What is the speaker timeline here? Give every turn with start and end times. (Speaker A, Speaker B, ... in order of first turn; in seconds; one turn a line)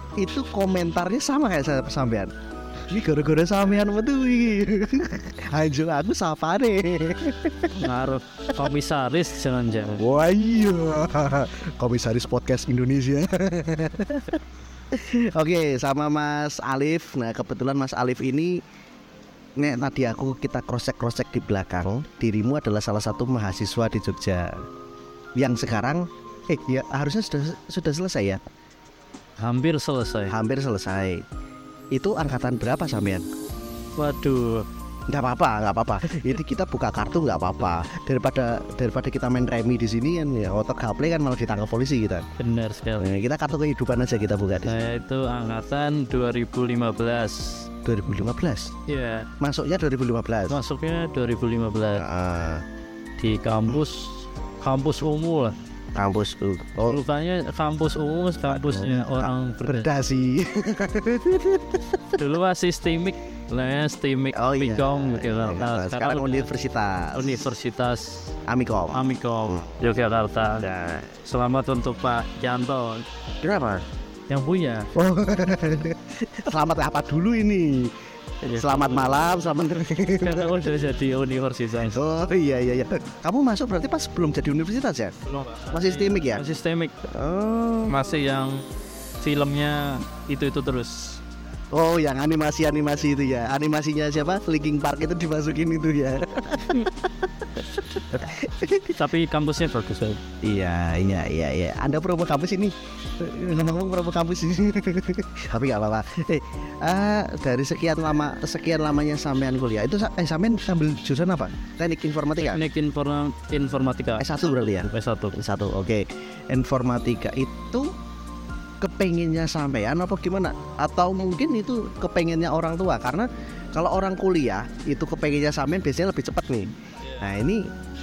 Speaker A: 0.2-2.3
Speaker A: 2.9-7.9
Speaker B: 7.7-10.0
Speaker A: 10.0-14.4
Speaker A: 14.9-18.6
Speaker A: 19.6-24.6
Speaker A: 25.4-28.4
Speaker B: 29.4-30.4
Speaker A: 30.3-31.2
Speaker A: 31.9-33.2
Speaker B: 34.0-34.7
Speaker A: 35.1-42.3
Speaker B: 42.4-43.1
Speaker A: 43.0-44.8
Speaker B: 44.6-47.7
Speaker A: 47.9-48.7
Speaker B: 48.9-49.3
Speaker A: 49.4-50.6
Speaker B: 50.5-52.0
Speaker A: 52.0-52.6
Speaker B: 53.2-55.6
Speaker A: 56.0-57.0
Speaker B: 56.8-59.9
Speaker A: 58.5-62.2
Speaker B: 62.1-66.5
Speaker A: 64.3-67.5
Speaker B: 67.1-68.4
Speaker A: 68.5-69.6
Speaker B: 68.9-70.7
Speaker A: 70.6-71.2
Speaker B: 71.2-73.1
Speaker A: 73.4-73.9
Speaker B: 74.3-74.9
Speaker A: 74.9-78.0
Speaker B: 78.4-79.2
Speaker A: 78.5-80.7
Speaker B: 80.2-82.0
Speaker A: 81.9-85.2
Speaker B: 85.3-87.0
Speaker A: 85.7-86.4
Speaker A: 87.1-88.0
Speaker B: 87.9-88.7
Speaker B: 89.2-91.2
Speaker A: 91.7-99.0
Speaker B: 98.1-100.2
Speaker A: 100.4-112.6
Speaker B: 112.4-115.4
Speaker A: 114.2-117.9
Speaker A: 118.8-127.7